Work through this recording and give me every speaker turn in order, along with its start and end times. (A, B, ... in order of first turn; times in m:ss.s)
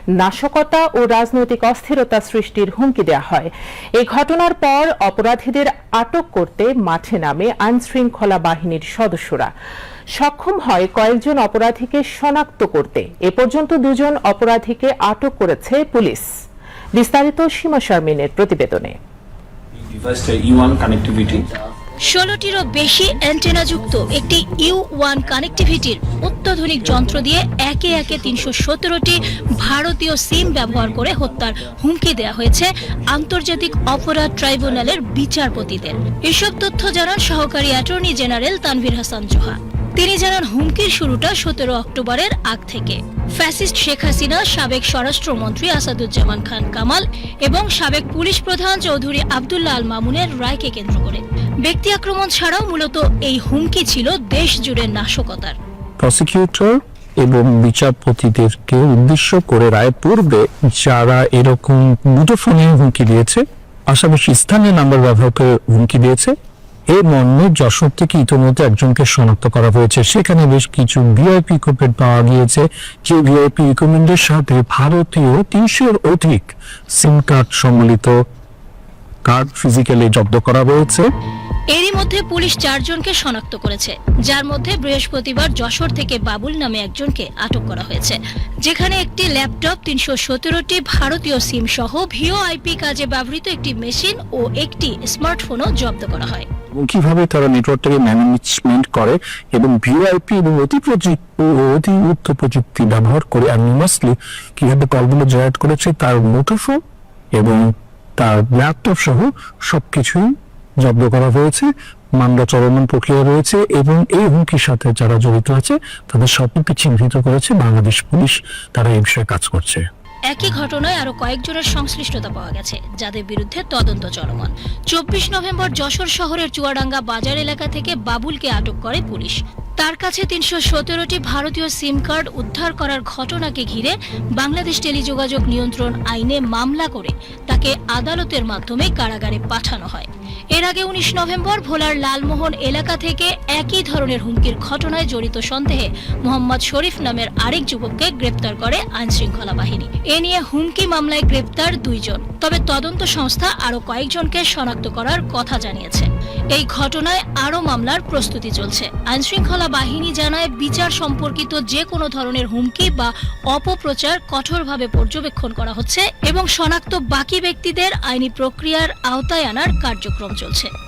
0:00.2-0:09.5 A
0:10.2-0:16.3 A
0:17.0-0:19.0 A
0:19.9-0:21.5 B
0:22.0-0:55.6 C
0:22.8-0:27.2 B
0:28.0-0:28.5 B
0:29.4-0:29.7 B
0:30.5-0:31.5 B
0:32.0-0:32.4 B
0:33.1-0:35.0 B
0:35.6-0:35.9 B
0:56.0-1:06.3 D
1:06.9-1:18.2 D
1:19.2-1:21.1 D
1:21.7-1:36.5 C
1:36.8-1:46.8 D
1:47.4-1:47.6 D
1:48.2-1:50.3 D
1:50.8-1:59.8 D
2:00.3-2:50.7 C